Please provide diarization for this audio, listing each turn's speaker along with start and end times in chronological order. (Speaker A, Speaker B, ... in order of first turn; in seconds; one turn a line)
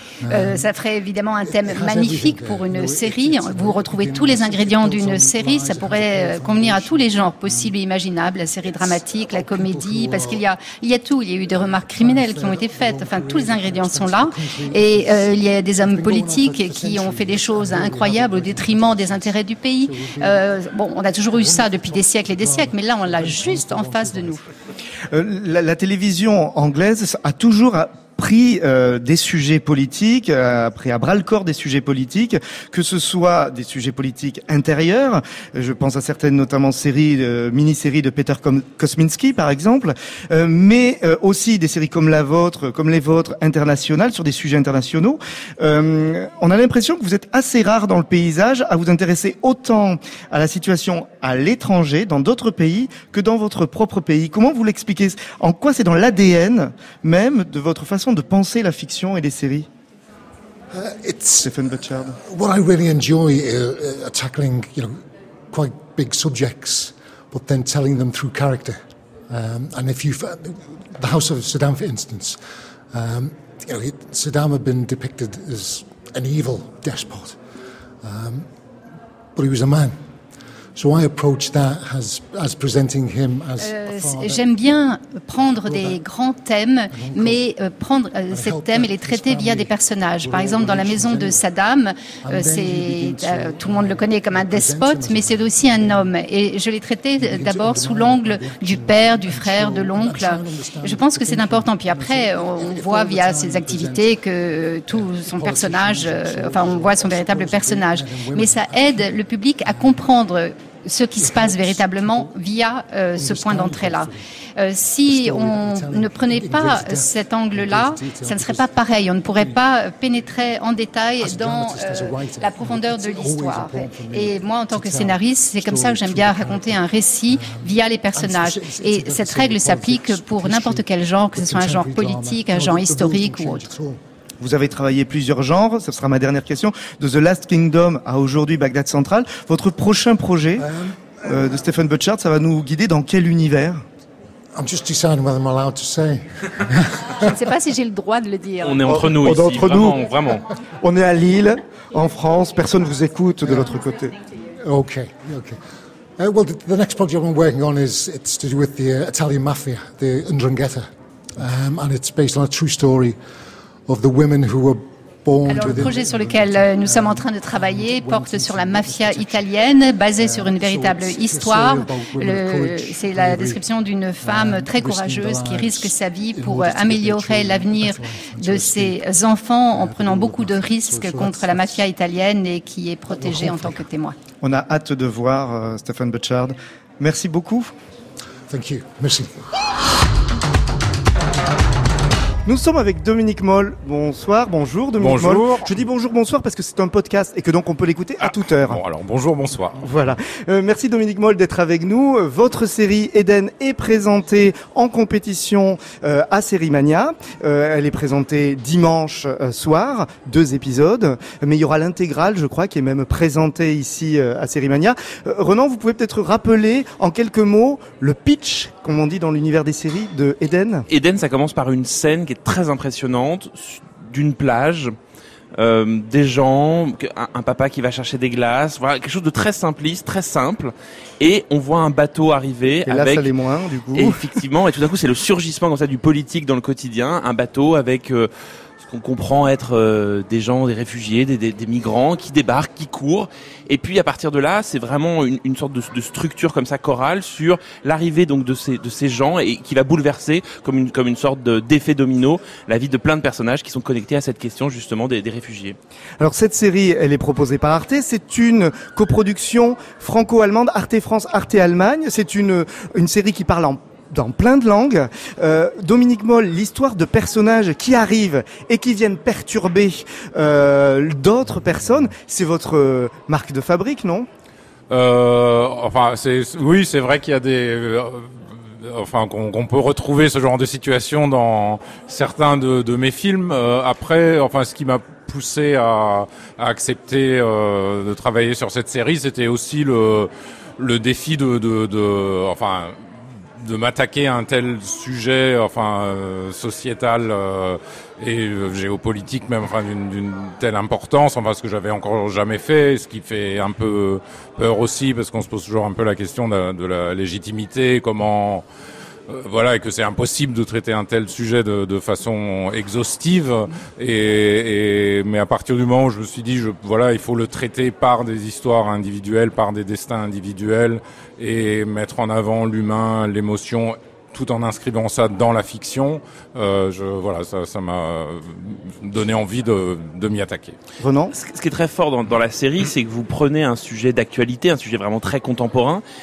Speaker A: 0.2-0.7
Speaker B: 0.3-24.4
Speaker A: 1.4-7.8
Speaker A: 8.8-10.5
Speaker A: 11.5-20.6
Speaker A: 21.3-24.4
Speaker C: 25.1-59.7
Speaker A: 60.7-65.0
Speaker C: 61.4-62.2
Speaker A: 65.5-72.4
Speaker A: 72.9-77.4
Speaker A: 78.0-78.5
Speaker A: 79.3-80.0
Speaker A: 80.8-84.7
Speaker B: 83.6-133.7
Speaker A: 85.5-86.0
Speaker A: 86.9-87.4
Speaker A: 88.3-91.5
Speaker A: 92.2-96.2
Speaker A: 97.2-104.3
Speaker A: 104.9-110.2
Speaker A: 111.2-112.4
Speaker A: 113.2-114.2
Speaker A: 115.0-119.7
Speaker A: 121.2-134.0
Speaker C: 134.4-140.7
Speaker A: 140.6-141.2
Speaker C: 141.2-143.8
Speaker A: 144.6-147.3
Speaker B: 147.2-149.0
Speaker D: 148.6-150.5
Speaker C: 148.9-150.1
Speaker C: 150.8-154.2
Speaker A: 154.6-155.6
Speaker A: 156.2-163.2
Speaker A: 163.9-169.6
Speaker B: 165.4-184.2
Speaker A: 170.2-173.6
Speaker A: 174.2-181.9
Speaker A: 183.1-183.9
Speaker C: 184.4-187.8
Speaker A: 188.5-189.3
Speaker C: 192.5-198.8
Speaker E: 195.0-195.7
Speaker E: 198.2-199.8
Speaker C: 199.8-220.9
Speaker D: 220.9-224.9
Speaker D: 225.6-233.3
Speaker C: 232.8-234.3
Speaker D: 233.9-255.8
Speaker C: 256.2-274.3
Speaker E: 274.9-308.7
Speaker E: 309.3-330.8
Speaker C: 331.0-331.3
Speaker D: 331.3-336.0